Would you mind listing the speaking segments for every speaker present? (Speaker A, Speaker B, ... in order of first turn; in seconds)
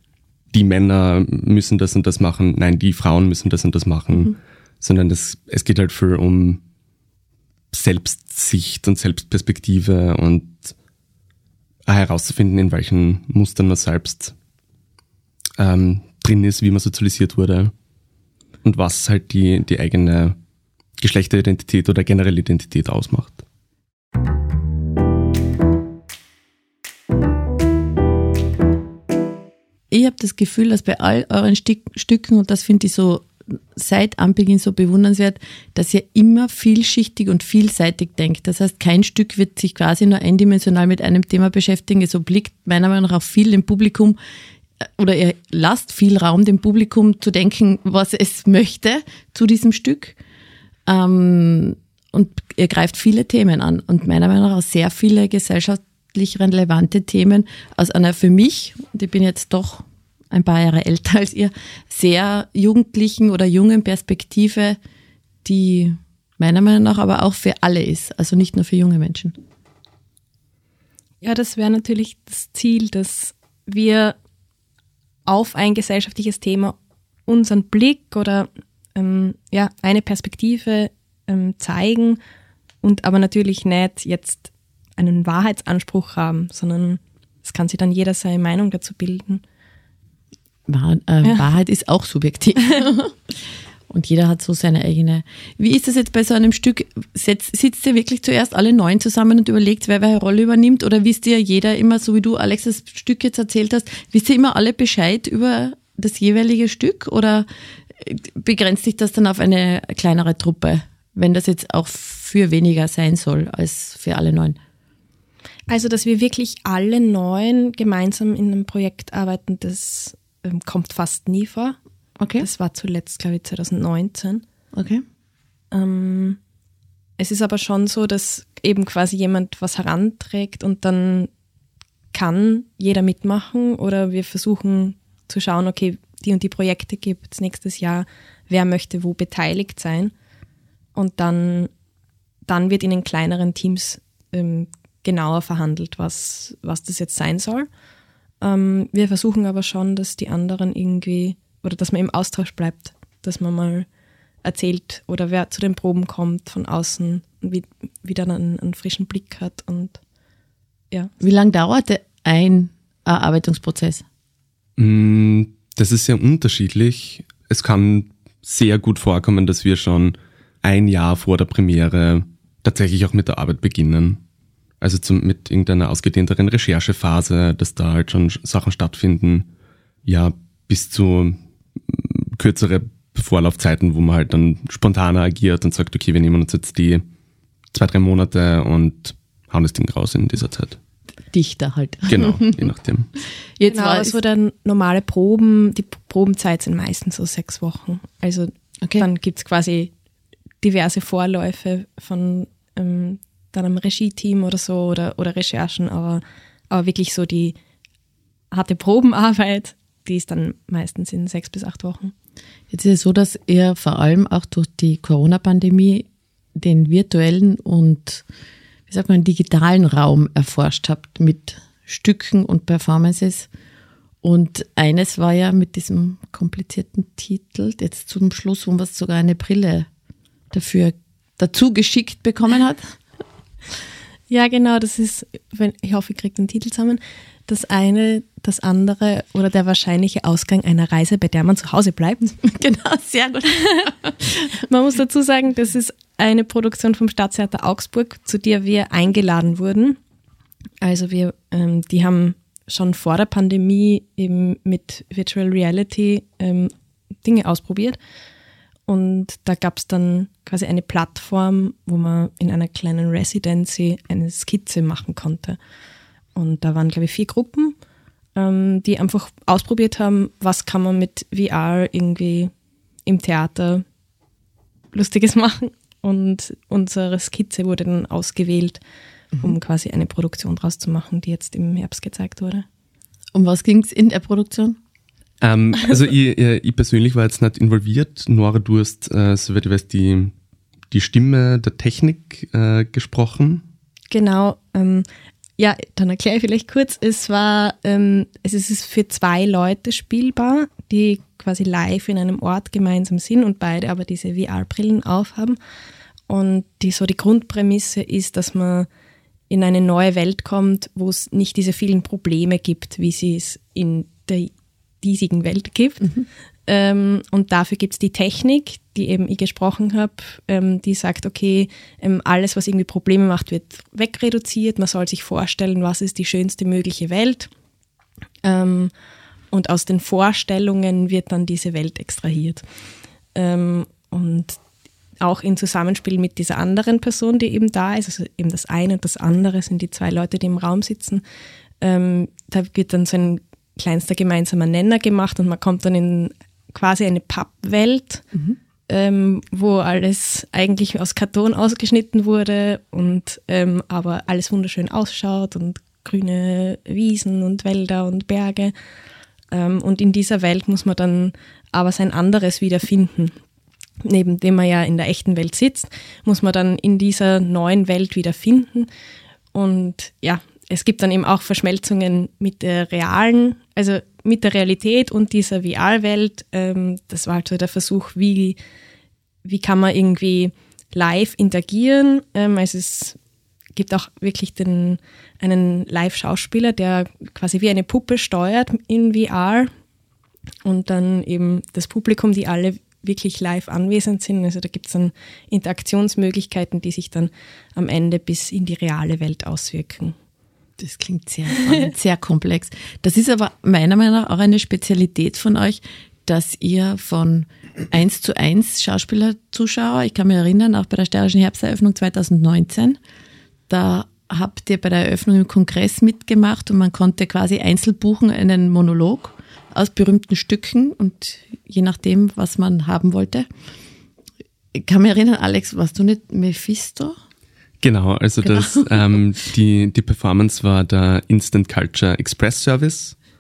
Speaker A: 0.5-6.6, 7.7-10.7, 11.9-14.3, 15.6-17.7, 18.6-20.4, 21.0-23.4, 164.8-174.2, 174.8-179.5, 180.0-187.0, 187.7-190.8, 192.1-193.1, 285.4-290.3, 290.9-293.6, 427.8-433.1
Speaker B: 29.9-44.2, 44.8-50.2, 50.9-64.8, 65.4-69.3, 90.7-114.6, 122.2-122.5, 124.7-125.0, 161.2-164.0, 191.3-192.6, 193.6-194.2, 212.7-218.2, 218.9-223.5, 224.2-229.9, 230.5-233.0, 242.4-244.5, 283.3-284.8, 400.8-413.0, 413.7-423.5, 424.7-427.1, 428.4-429.1
Speaker C: 71.2-74.2, 75.2-76.8, 77.3-82.2, 82.8-89.4, 115.7-121.8, 122.4-124.4, 125.7-126.4, 127.2-131.3, 132.1-140.1, 140.9-141.7, 142.5-147.7, 148.4-153.9, 154.4-160.0, 193.7-199.9, 200.6-207.6, 208.5-212.1, 234.3-242.4, 244.6-250.0, 250.8-256.7, 257.2-258.0, 258.9-265.6, 266.3-267.8, 268.3-272.5, 273.1-273.8, 274.9-278.8, 279.4-282.6, 294.1-295.1, 295.6-305.6, 306.3-308.9, 309.5-327.5, 328.4-328.9, 329.5-332.6, 333.3-334.6, 335.2-341.2, 341.8-348.2, 348.9-358.7, 359.5-363.4, 364.0-368.9, 369.5-378.6, 379.4-383.2, 383.7-389.7, 390.6-400.1